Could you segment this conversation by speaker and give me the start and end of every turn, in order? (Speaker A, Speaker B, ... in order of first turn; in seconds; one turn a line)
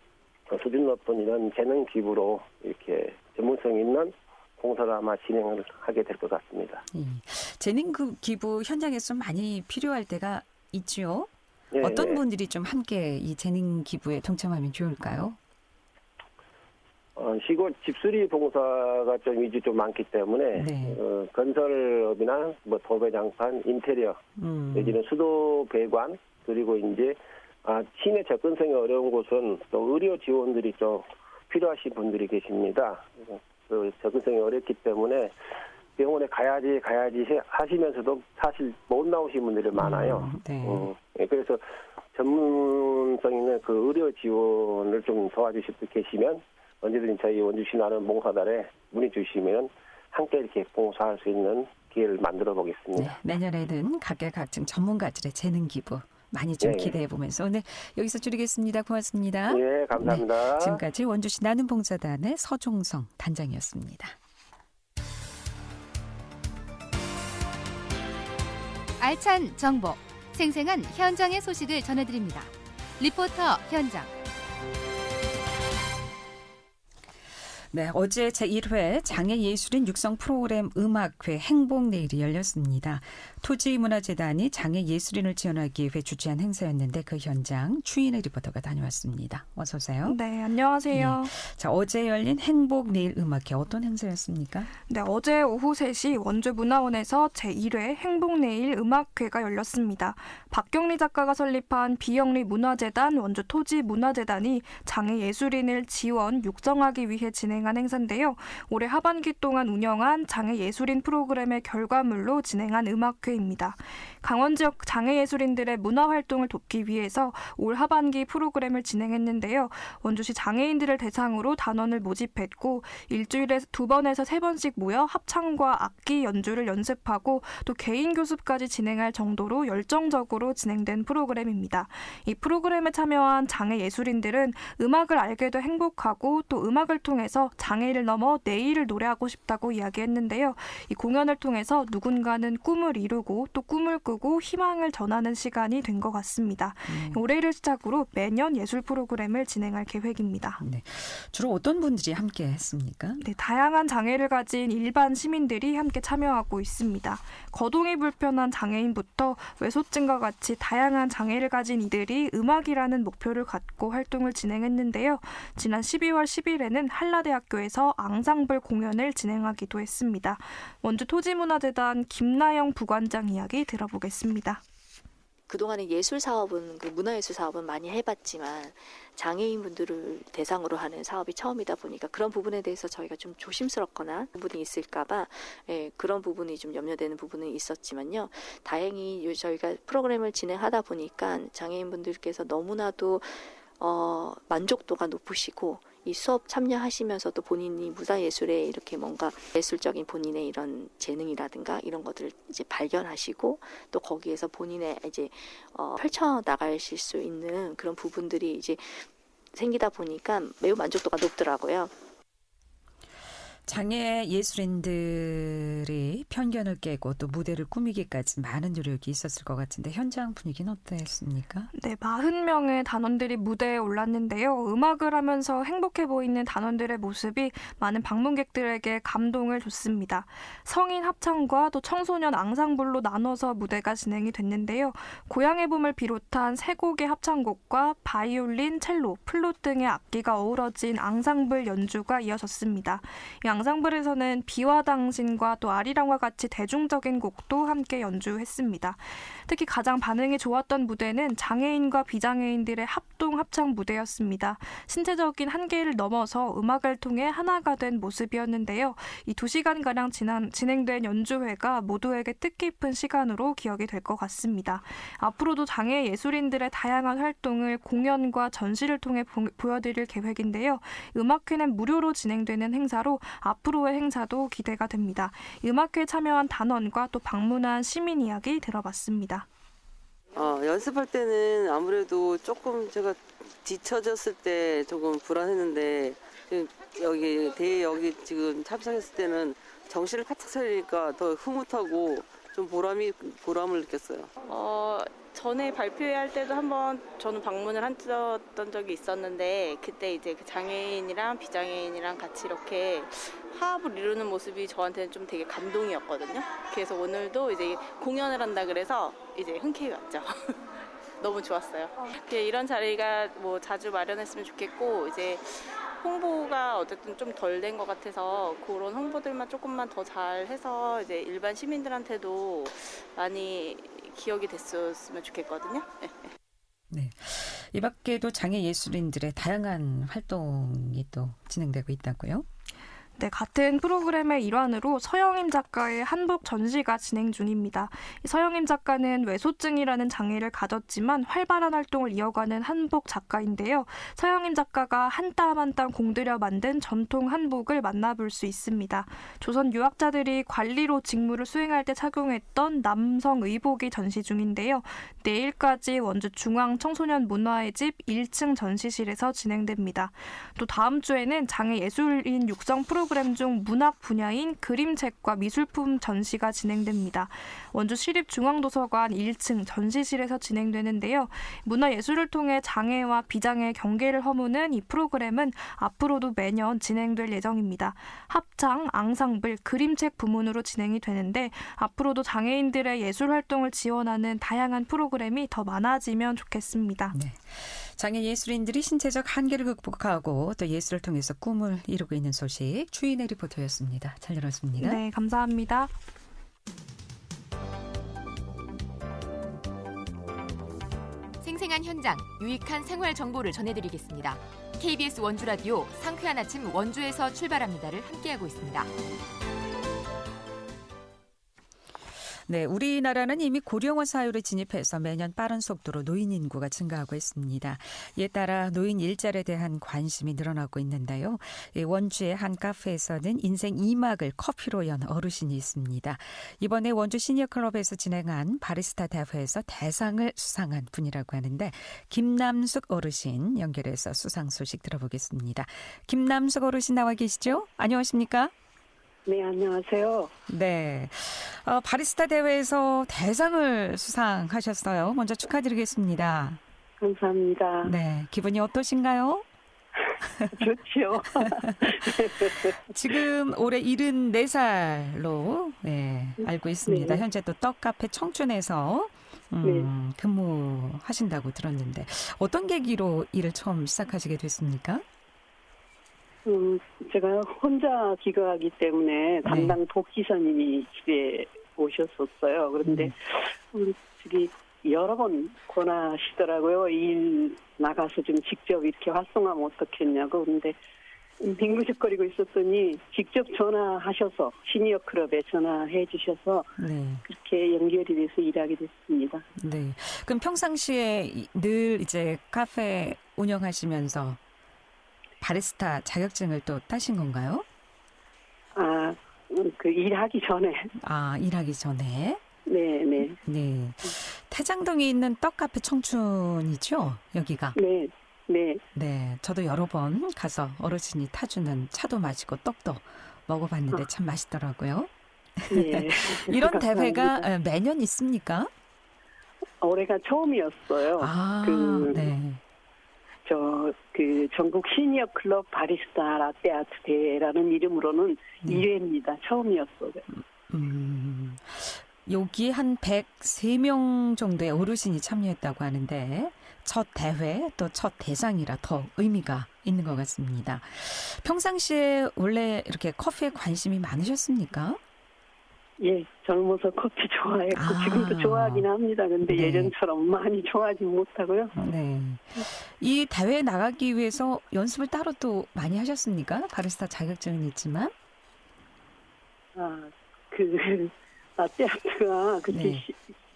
Speaker A: 0.5-6.8
Speaker B: 6.9-11.3
Speaker A: 11.7-12.2
Speaker B: 11.8-15.4
Speaker A: 17.2-24.2
Speaker B: 20.6-21.0
Speaker B: 24.4-25.0
Speaker A: 24.7-35.4
Speaker A: 36.0-53.2
Speaker B: 39.8-40.9
Speaker B: 53.0-64.2
Speaker A: 56.6-56.9
Speaker A: 59.5-60.8
Speaker C: 69.0-74.1
Speaker B: 77.7-90.2
Speaker D: 90.0-91.3
Speaker B: 90.9-94.7
Speaker D: 94.9-150.6
Speaker B: 146.9-147.2
Speaker B: 150.6-153.2
Speaker D: 153.2-174.6
Speaker E: 175.5-211.9
Speaker B: 213.7-221.7
Speaker D: 221.7-279.5
Speaker F: 280.4-294.3
Speaker G: 294.4-310.7
Speaker G: 311.2-326.3
Speaker B: 326.9-332.5
Speaker D: 333.2-387.1
Speaker B: 387.1-395.0
Speaker D: 394.8-395.9
Speaker H: 401.4-408.9
Speaker B: 412.5-438.5
Speaker I: 439.3-440.3
Speaker B: 440.5-446.6
Speaker I: 447.0-447.9
Speaker B: 447.8-449.4
Speaker B: 450.2-450.6
Speaker I: 450.6-452.8
Speaker B: 452.9-465.0
Speaker I: 456.9-457.2
Speaker I: 459.6-459.9
Speaker I: 466.5-480.8
Speaker B: 469.5-469.8
Speaker B: 472.8-473.1
Speaker I: 481.4-486.8
Speaker B: 486.8-487.2
Speaker I: 487.3-489.4
Speaker B: 489.6-494.4
Speaker B: 495.4-497.7
Speaker I: 498.8-500.9
Speaker B: 501.0-502.4
Speaker I: 502.7-503.4
Speaker B: 503.4-507.8
Speaker I: 507.8-508.8
Speaker B: 508.9-515.1
Speaker B: 515.6-518.7
Speaker I: 515.7-517.4
Speaker I: 519.8-522.3
Speaker B: 521.2-522.6
Speaker I: 523.5-530.2
Speaker B: 530.3-545.0
Speaker I: 546.0-551.8
Speaker B: 547.7-548.9
Speaker B: 549.4-549.9
Speaker B: 551.8-558.1
Speaker I: 559.8-563.2
Speaker B: 562.7-563.1